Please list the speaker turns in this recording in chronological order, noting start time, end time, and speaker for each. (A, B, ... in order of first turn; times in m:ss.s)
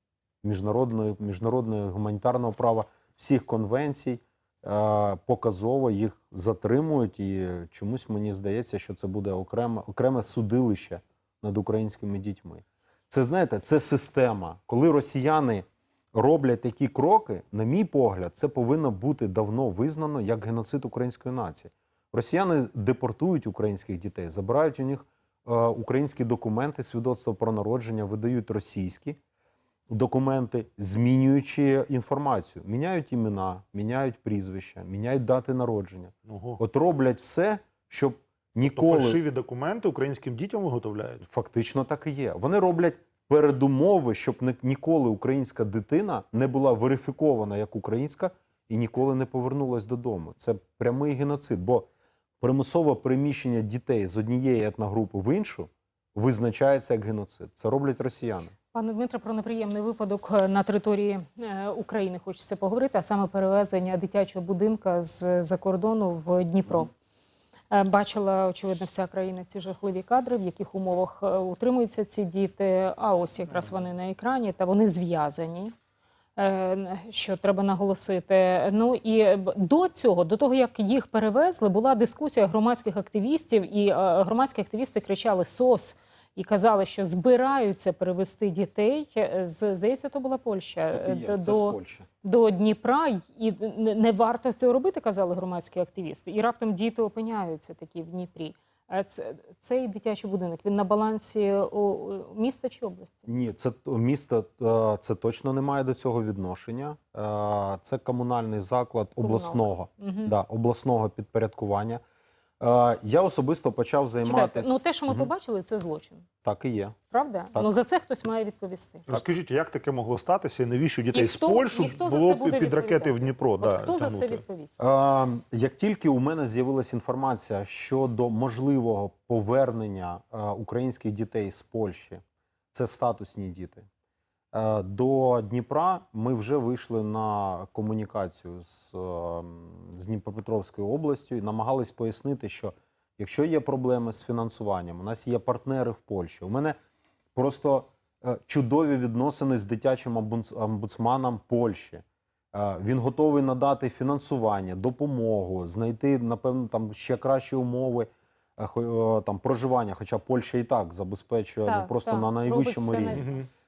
0:00.4-0:29.2 A
0:29.9-0:39.2 A
0:36.3-0:36.6 B
0:38.6-0:41.2 B
0:41.3-0:51.9 A
0:52.4-0:58.5 A
0:58.7-1:06.9 C
1:07.7-1:15.7 C
1:16.4-1:43.3 C
1:30.9-1:32.1 A
1:43.3-1:52.0 A
1:49.2-1:50.4 C
1:52.6-1:55.3 A
1:54.2-1:56.2 C
1:56.4-1:57.0 A
1:57.1-1:59.1 C
1:59.1-2:04.4 B
2:01.1-2:04.8 C
2:04.8-2:12.2 A
2:12.7-2:13.9 A
2:14.5-2:26.8 A
2:27.4-2:43.4 A
2:41.6-2:43.4 C
2:43.2-2:43.4 B